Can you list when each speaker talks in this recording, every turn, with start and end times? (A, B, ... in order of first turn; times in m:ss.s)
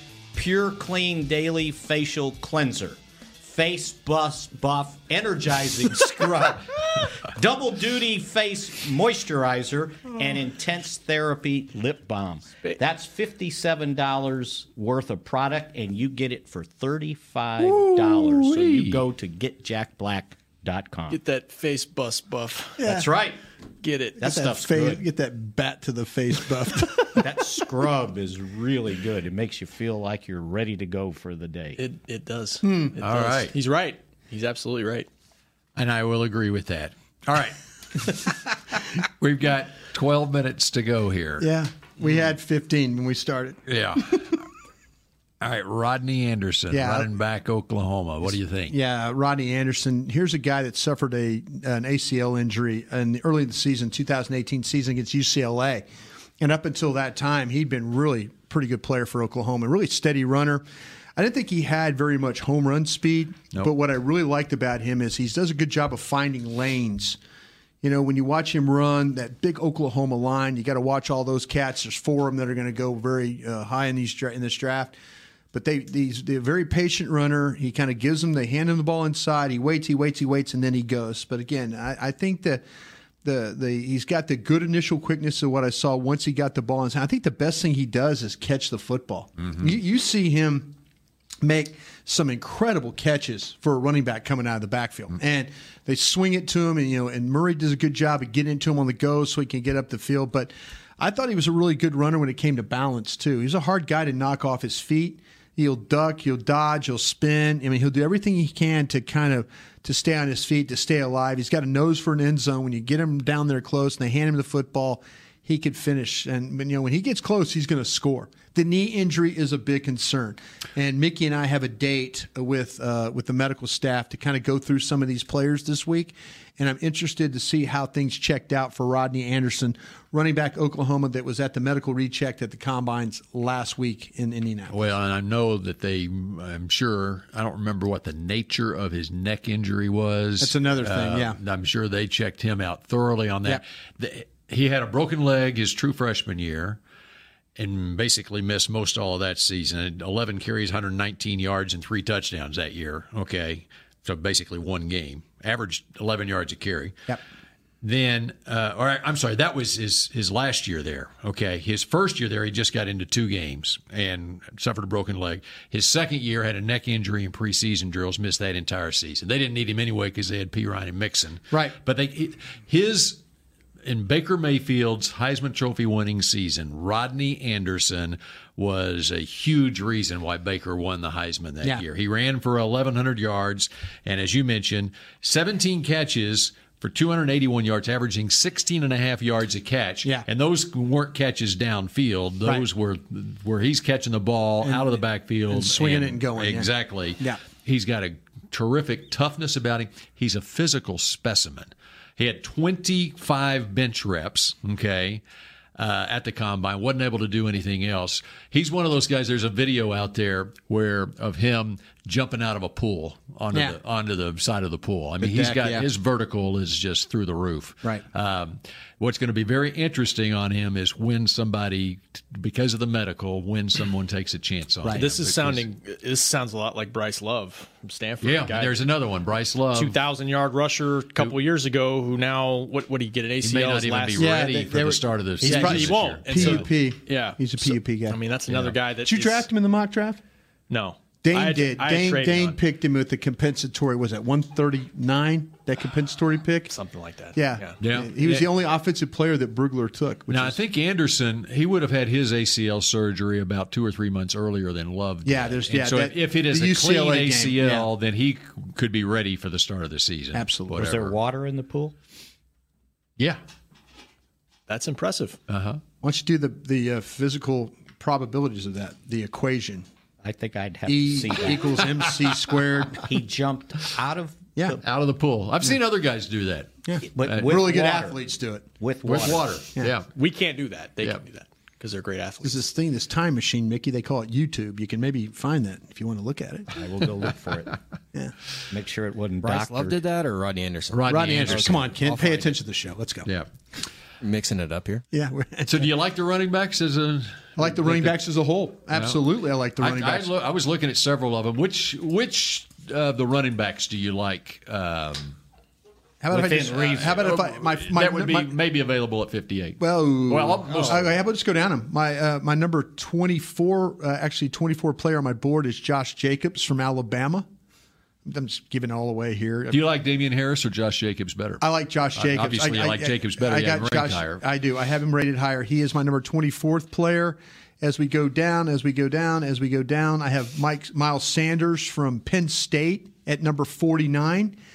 0:00.3-0:21.2 A
0:17.6-0:19.0 B
0:21.1-0:22.8 C
0:22.8-0:23.1 D
0:22.8-0:23.4 A
0:23.8-0:24.2 C
0:24.2-0:27.2 D
0:24.2-0:25.0 A
0:27.2-0:31.8 A
0:31.8-0:35.1 C
0:32.6-0:33.0 D
0:33.0-0:33.5 B
0:35.8-0:38.2 B
0:39.0-0:41.5 B
0:41.4-0:44.2 D
0:43.7-0:44.4 B
0:45.4-0:48.8 B
0:46.7-0:47.1 D
0:48.3-0:55.9 D
0:56.4-1:00.6 D
1:01.2-1:07.2 D
1:07.8-1:15.0 D
1:15.5-1:22.6 D
1:23.2-1:30.7 D
1:31.4-2:14.7 D
2:14.7-2:26.8 B
2:20.4-2:21.4 D
2:27.6-2:37.1 B
2:37.8-2:53.2 B
2:51.5-2:51.8 D
2:53.8-3:25.2 B
3:14.6-3:17.4 D
3:25.8-3:45.6 B
3:33.5-3:33.8 D
3:35.2-3:35.9 D
3:44.8-3:45.1 D
3:44.9-3:48.8 C
3:48.2-3:50.0 B
3:49.7-3:54.4 C
3:53.4-3:56.7 B
3:54.2-3:58.2 D
3:55.4-3:59.5 C
3:58.5-3:58.7 B
3:59.0-4:00.2 D
4:00.7-4:02.6 C
4:01.2-4:06.7 D
4:06.6-4:07.8 C
4:07.3-4:10.6 D
4:07.8-4:08.2 B
4:10.3-4:21.1 B
4:15.2-4:17.9 D
4:20.3-4:21.0 D
4:20.7-4:21.9 A
4:24.7-4:25.4 C
4:25.5-4:25.8 B
4:26.0-4:29.8 D
4:30.2-4:31.8 A
4:30.8-4:33.0 D
4:33.0-4:34.8 A
4:34.8-4:37.6 B
4:36.8-4:40.0 D
4:37.0-4:38.2 A
4:38.8-4:39.5 A
4:39.0-4:40.1 B
4:40.1-4:42.6 C
4:42.4-4:46.7 D
4:46.7-4:47.8 A
4:48.7-4:50.0 A
4:49.4-4:52.5 E
4:50.9-4:51.9 B
4:51.0-4:53.3 D
4:54.2-4:55.0 E
4:55.1-4:55.9 D
4:55.6-4:58.2 B
4:57.6-5:00.3 D
4:58.9-4:59.2 B
4:59.8-5:05.4 B
5:06.2-5:08.5 D
5:06.3-5:07.4 A
5:06.7-5:11.2 B
5:09.8-5:17.5 D
5:18.2-5:19.8 D
5:19.7-5:21.6 B
5:21.6-5:34.6 D
5:22.2-5:24.4 B